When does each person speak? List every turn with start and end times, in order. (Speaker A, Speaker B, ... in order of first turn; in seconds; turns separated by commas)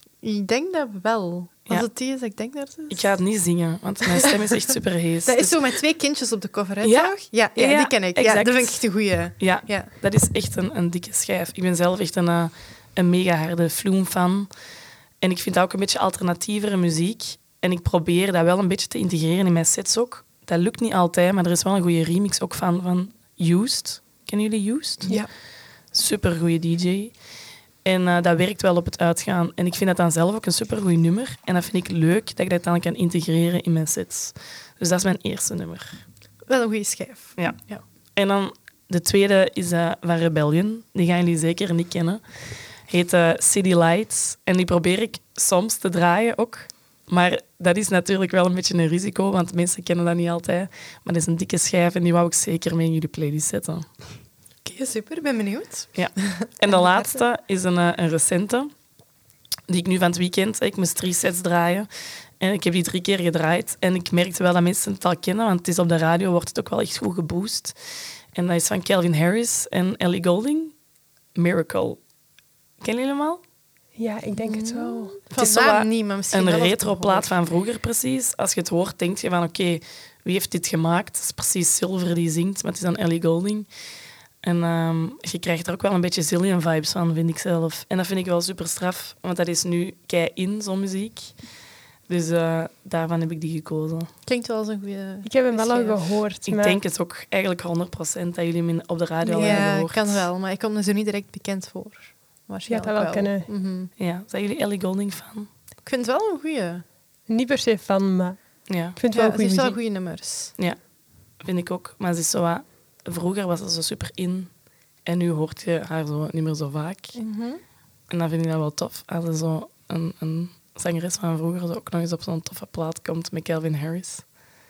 Speaker A: 0.2-3.2, Speaker B: 2.9-5.7, Speaker A: 5.2-9.9, Speaker B: 6.8-14.5, Speaker B: 15.2-25.2, Speaker B: 25.9-27.1, Speaker B: 27.8-36.0, Speaker A: 36.5-37.8, Speaker B: 37.4-42.2, Speaker B: 42.9-53.9, Speaker A: 54.6-57.2, Speaker B: 55.9-58.7, Speaker B: 59.7-61.9, Speaker B: 62.4-67.8, Speaker B: 68.3-70.7, Speaker B: 71.3-72.0, Speaker B: 72.8-73.4, Speaker C: 74.0-75.2, Speaker A: 74.4-77.3, Speaker B: 75.3-83.7, Speaker B: 84.4-91.3, Speaker B: 92.1-94.1, Speaker A: 94.2-96.0, Speaker C: 95.2-96.8, Speaker B: 96.5-100.3, Speaker C: 99.2-99.7, Speaker A: 99.3-103.9, Speaker C: 102.7-103.5, Speaker B: 104.0-105.5, Speaker A: 105.8-106.8, Speaker C: 107.3-109.8, Speaker B: 108.7-109.0, Speaker A: 109.1-110.5, Speaker B: 110.6-110.8, Speaker B: 111.4-114.5, Speaker B: 115.0-117.2, Speaker A: 117.2-117.6, Speaker B: 118.1-124.3